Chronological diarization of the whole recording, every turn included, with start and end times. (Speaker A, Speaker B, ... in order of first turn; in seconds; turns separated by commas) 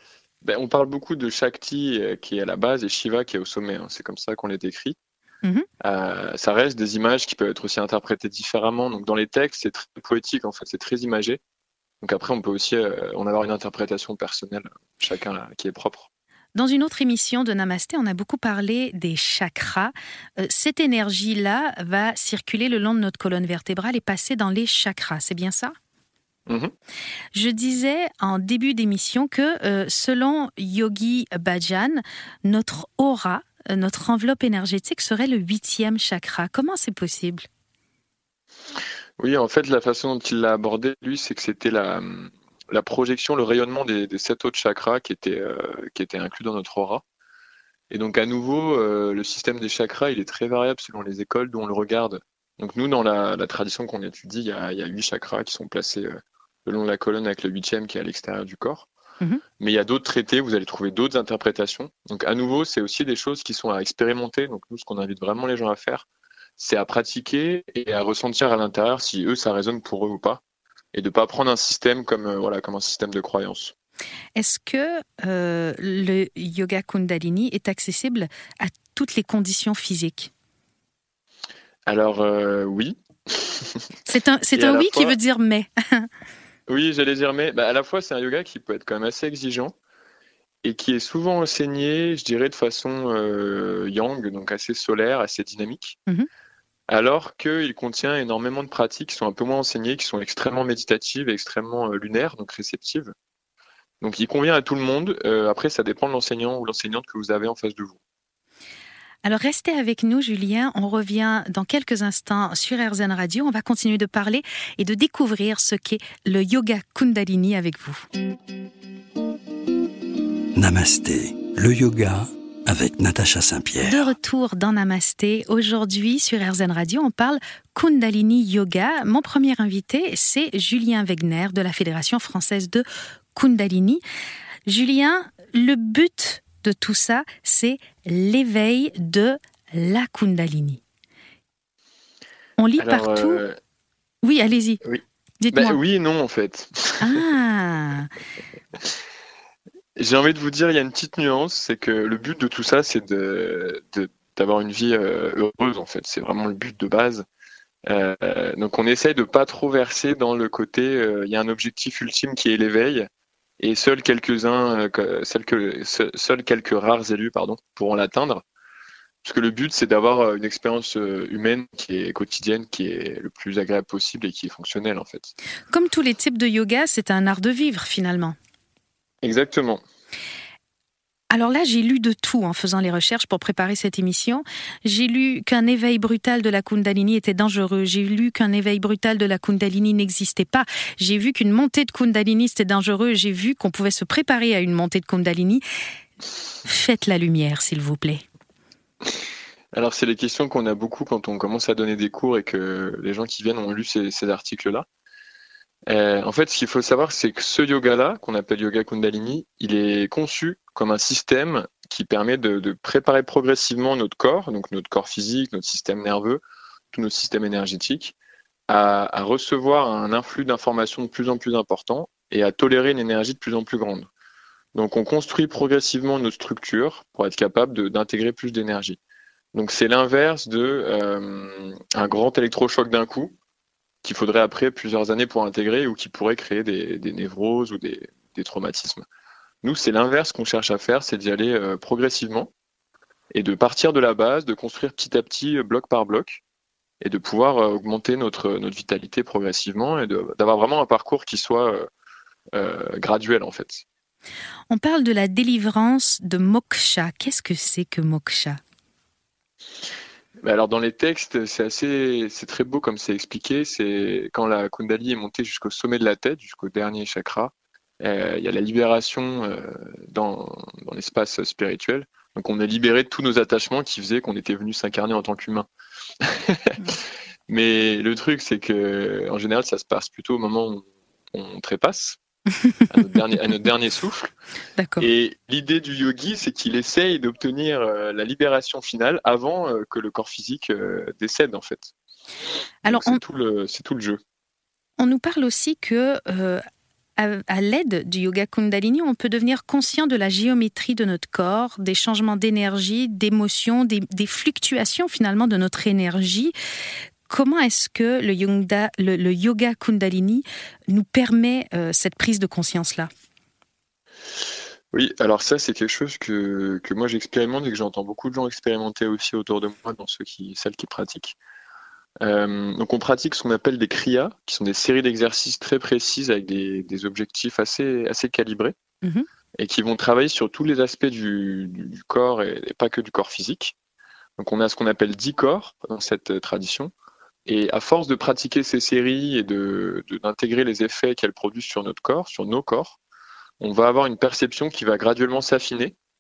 Speaker A: 0.4-5.0, Speaker A: 5.8-11.4, Speaker A: 12.0-16.1, Speaker B: 16.6-25.7, Speaker A: 26.5-26.7, Speaker B: 27.3-37.5, Speaker A: 39.2-47.0, Speaker A: 47.9-58.9, Speaker A: 59.6-66.0, Speaker A: 66.6-70.4, Speaker A: 70.9-73.7, Speaker B: 74.4-80.3, Speaker A: 81.9-83.9, Speaker B: 84.1-86.1, Speaker A: 84.5-85.2, Speaker A: 86.7-89.7, Speaker A: 90.6-96.0, Speaker A: 96.9-103.1, Speaker A: 104.0-108.0, Speaker B: 109.2-118.1, Speaker C: 120.5-124.1, Speaker B: 123.8-134.0, Speaker B: 134.7-140.8, Speaker B: 142.6-143.4, Speaker A: 142.8-143.6, Speaker B: 144.2-144.8, Speaker A: 144.8-147.2, Speaker B: 145.4-145.8, Speaker B: 147.0-148.1, Speaker A: 150.0-157.3, Speaker A: 157.9-163.1, Speaker A: 163.6-168.4, Speaker A: 169.2-175.3, Speaker B: 175.7-178.4, Speaker A: 179.2-179.8, Speaker B: 181.3-195.6, Speaker B: 196.7-198.2, Speaker A: 199.7-204.9, Speaker A: 205.9-218.2, Speaker A: 218.7-224.1, Speaker A: 224.8-229.0, Speaker A: 229.5-233.3, Speaker A: 234.0-239.1, Speaker A: 239.6-242.5, Speaker A: 243.3-246.4, Speaker A: 247.0-251.9, Speaker A: 252.6-253.8, Speaker B: 254.7-258.6, Speaker A: 260.4-275.7, Speaker A: 276.2-276.9, Speaker A: 277.5-282.2, Speaker A: 282.9-284.3, Speaker B: 284.8-285.1, Speaker A: 285.0-291.9, Speaker B: 292.9-293.2, Speaker A: 292.9-294.2, Speaker B: 295.0-296.6, Speaker B: 297.2-306.5, Speaker B: 307.3-313.1, Speaker A: 314.9-321.4, Speaker A: 322.2-328.8, Speaker A: 329.6-333.8, Speaker A: 334.4-336.9, Speaker A: 337.5-343.0, Speaker A: 343.6-346.0